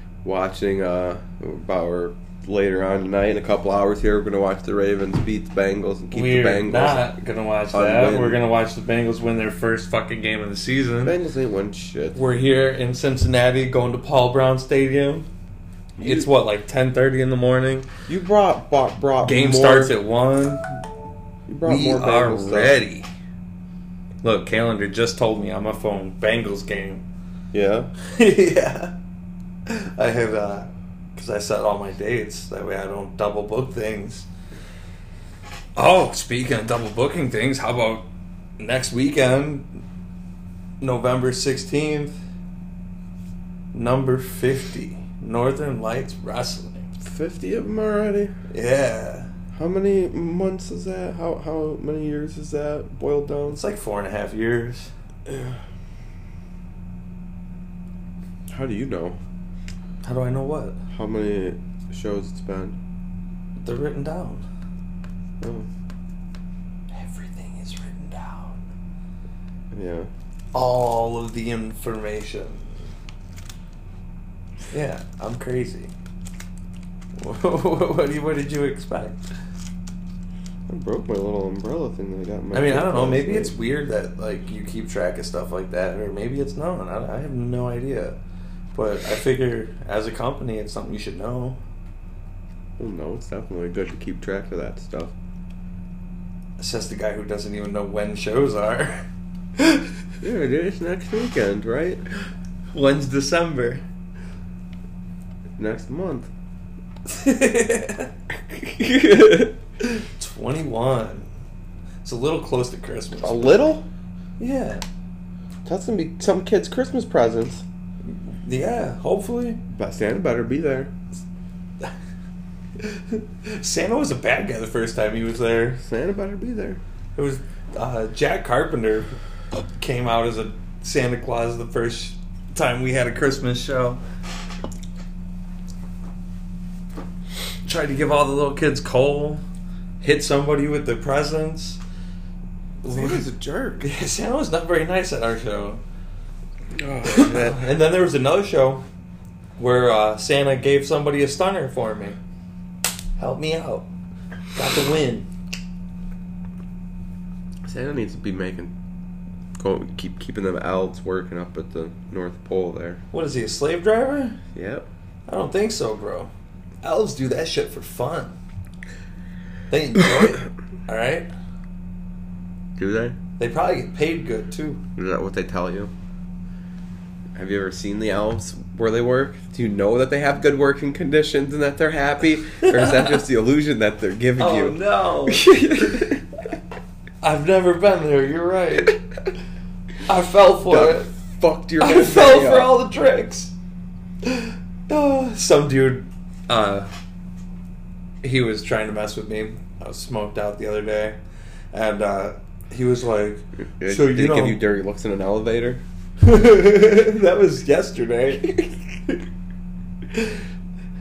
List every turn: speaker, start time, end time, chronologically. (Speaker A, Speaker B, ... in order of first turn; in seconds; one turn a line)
Speaker A: 0.2-7.1
Speaker B: 6.1-11.2
Speaker A: 7.7-8.4
Speaker A: 11.0-12.2
Speaker B: 12.1-15.3
Speaker A: 15.9-16.3
Speaker B: 16.0-17.9
Speaker A: 18.1-19.9
Speaker B: 19.2-20.7
Speaker A: 21.5-22.8
Speaker B: 21.6-23.1
Speaker B: 24.2-27.0
Speaker A: 27.5-27.9
Speaker B: 28.0-28.9
Speaker B: 29.7-34.3
Speaker B: 35.8-38.0
Speaker B: 38.6-39.8
Speaker B: 40.8-42.2
Speaker B: 43.7-46.9
Speaker A: 47.0-48.3
Speaker B: 48.5-49.3
Speaker A: 49.5-53.6
Speaker B: 53.5-54.9
Speaker A: 55.3-55.6
Speaker A: 58.5-59.2
Speaker B: 60.0-60.8
Speaker A: 60.9-62.8
Speaker B: 63.6-64.4
Speaker A: 65.4-65.7
Speaker B: 66.9-68.6
Speaker A: 69.7-70.1
Speaker B: 70.5-72.7
Speaker B: 74.7-75.9
Speaker B: 77.2-79.2
Speaker A: 80.7-83.5
Speaker B: 82.5-88.2
Speaker B: 88.7-91.6
Speaker A: 92.8-95.1
Speaker B: 96.6-99.0
Speaker B: 99.6-99.9
Speaker A: 100.2-102.0
Speaker B: 102.7-103.8
Speaker A: 105.6-106.3
Speaker B: 107.1-108.1
Speaker A: 108.5-109.6
Speaker B: 109.8-111.3
Speaker B: 112.0-113.6
Speaker A: 113.2-113.8
Speaker B: 114.4-114.8
Speaker A: 115.6-117.6
Speaker B: 118.0-119.6
Speaker A: 119.7-120.9
Speaker B: 122.8-125.8
Speaker A: 125.8-126.8
Speaker B: 127.2-134.0
Speaker B: 137.6-139.4
Speaker B: 140.0-141.8
Speaker B: 142.8-143.2
Speaker A: 142.8-143.8
Speaker B: 143.8-145.8
Speaker A: 146.7-147.7
Speaker B: 147.0-148.8
Speaker B: 149.6-152.2
Speaker B: 153.2-153.9
Speaker B: 154.5-155.3
Speaker A: 157.6-158.7
Speaker A: 159.6-163.0
Speaker B: 163.1-164.4
Speaker A: 164.5-164.9
Speaker B: 165.3-166.3
Speaker B: 166.8-168.3
Speaker B: 169.7-171.3
Speaker A: 172.8-173.2
Speaker B: 173.4-174.8
Speaker A: 175.0-175.9
Speaker A: 177.3-186.2
Speaker B: 182.6-183.2
Speaker B: 184.4-185.5
Speaker B: 187.2-189.0
Speaker B: 190.1-191.1
Speaker A: 190.7-192.8
Speaker B: 191.8-193.5
Speaker B: 194.2-196.9
Speaker B: 198.2-201.2
Speaker B: 201.7-204.6
Speaker A: 203.6-205.8
Speaker B: 206.2-209.2